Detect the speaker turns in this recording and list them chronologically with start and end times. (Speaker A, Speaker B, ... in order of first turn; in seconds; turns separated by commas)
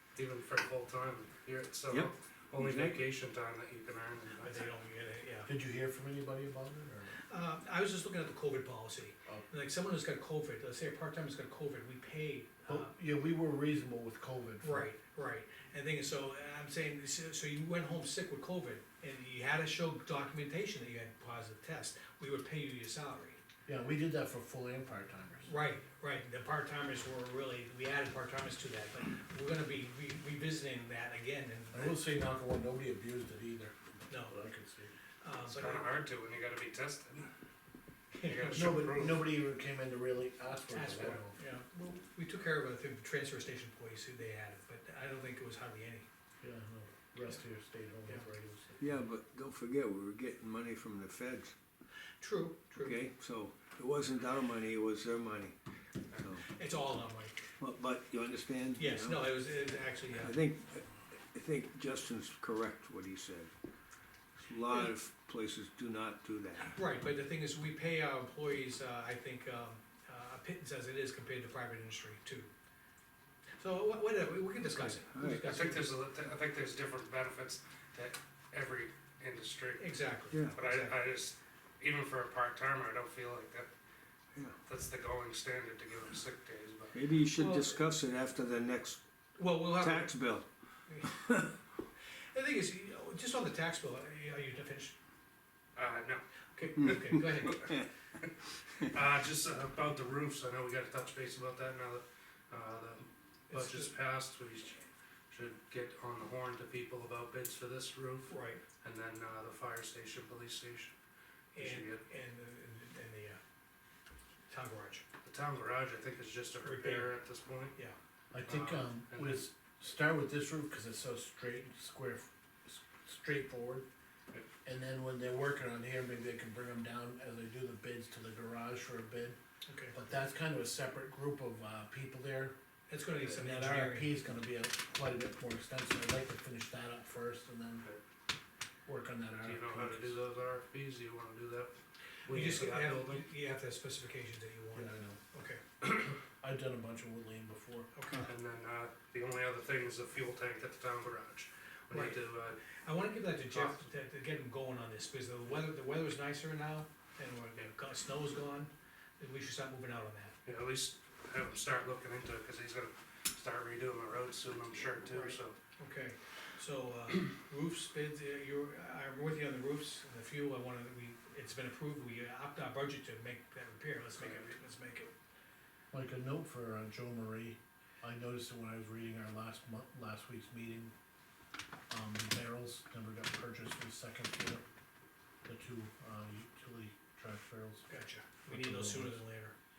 Speaker A: 0.2-4.7, Speaker B: 1.9-3.1, Speaker C: 4.4-5.5, Speaker D: 5.5-7.2, Speaker C: 7.3-12.9, Speaker D: 12.7-14.9, Speaker C: 14.6-23.4, Speaker D: 23.7-25.5, Speaker C: 25.5-32.0, Speaker D: 31.7-35.0, Speaker C: 34.1-34.4, Speaker C: 35.2-35.9, Speaker A: 35.5-37.3, Speaker C: 38.2-38.7, Speaker A: 38.2-39.2, Speaker D: 38.5-41.4, Speaker C: 40.7-46.1, Speaker D: 46.4-49.0, Speaker B: 48.8-51.5, Speaker C: 52.2-53.0, Speaker B: 52.7-55.6, Speaker B: 56.2-56.5, Speaker C: 56.4-57.4, Speaker B: 57.6-59.4, Speaker C: 58.8-60.4, Speaker B: 60.1-63.5, Speaker B: 64.4-66.8, Speaker C: 66.7-72.5, Speaker C: 73.6-76.0, Speaker B: 74.7-75.6, Speaker A: 75.4-80.0, Speaker C: 79.8-81.0, Speaker B: 80.3-80.6, Speaker A: 80.5-83.7, Speaker A: 84.7-87.0, Speaker B: 86.9-89.0, Speaker C: 87.3-87.8, Speaker C: 89.4-90.2, Speaker B: 89.7-90.5, Speaker C: 90.9-91.5, Speaker C: 92.3-95.0, Speaker A: 95.8-96.2, Speaker C: 96.6-97.7, Speaker B: 96.8-97.9, Speaker A: 96.8-97.7, Speaker A: 98.8-110.9, Speaker C: 103.5-103.9, Speaker C: 108.3-108.6, Speaker C: 111.5-113.4, Speaker A: 111.6-112.0, Speaker C: 114.5-115.0, Speaker A: 115.2-117.7, Speaker C: 116.6-117.2, Speaker D: 118.3-123.9, Speaker A: 118.4-119.5, Speaker D: 124.7-129.4, Speaker C: 129.7-129.9, Speaker D: 129.9-132.6, Speaker C: 132.9-134.2, Speaker D: 133.2-137.8, Speaker D: 138.9-140.2, Speaker A: 139.4-143.3, Speaker C: 142.3-145.6, Speaker D: 144.7-145.2, Speaker D: 146.4-147.9, Speaker C: 147.9-148.3, Speaker A: 148.2-152.7, Speaker C: 151.9-160.4, Speaker A: 153.5-153.8, Speaker A: 160.4-165.6, Speaker C: 165.1-175.1, Speaker A: 174.2-174.6, Speaker D: 175.9-180.9, Speaker D: 181.9-184.6, Speaker D: 185.5-187.9, Speaker C: 187.9-189.6, Speaker D: 188.5-189.2